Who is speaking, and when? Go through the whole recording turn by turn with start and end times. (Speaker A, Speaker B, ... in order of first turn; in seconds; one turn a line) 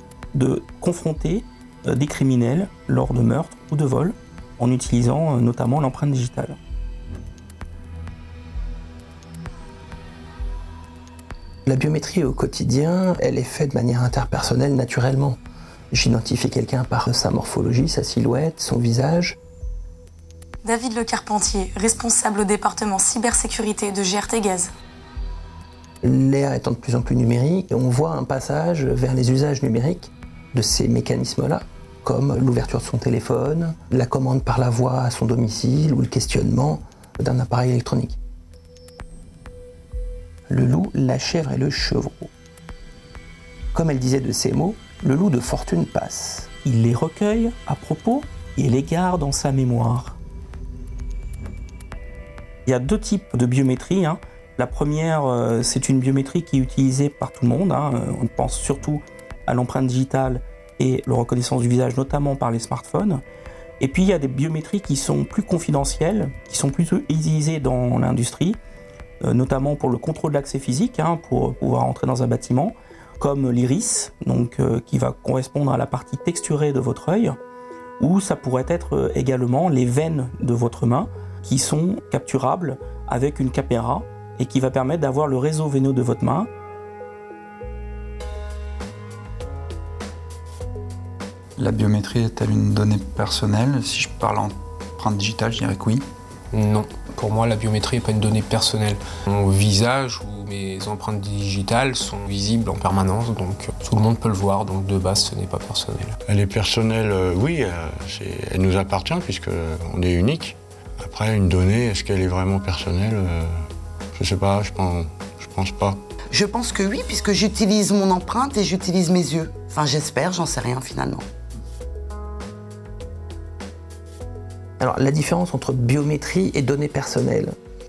Speaker A: 0.3-6.6
Speaker B: 11.7-15.4
Speaker B: 15.9-19.4
Speaker C: 20.6-24.7
Speaker B: 26.0-38.2
Speaker B: 40.5-42.3
Speaker B: 43.7-46.5
Speaker A: 46.6-50.2
Speaker A: 52.7-63.2
Speaker A: 63.8-68.6
Speaker A: 69.2-77.4
Speaker A: 78.0-86.5
Speaker D: 91.6-96.1
Speaker E: 96.5-106.2
Speaker F: 106.3-113.5
Speaker F: 114.1-116.0
Speaker G: 116.3-121.2
Speaker B: 124.8-127.5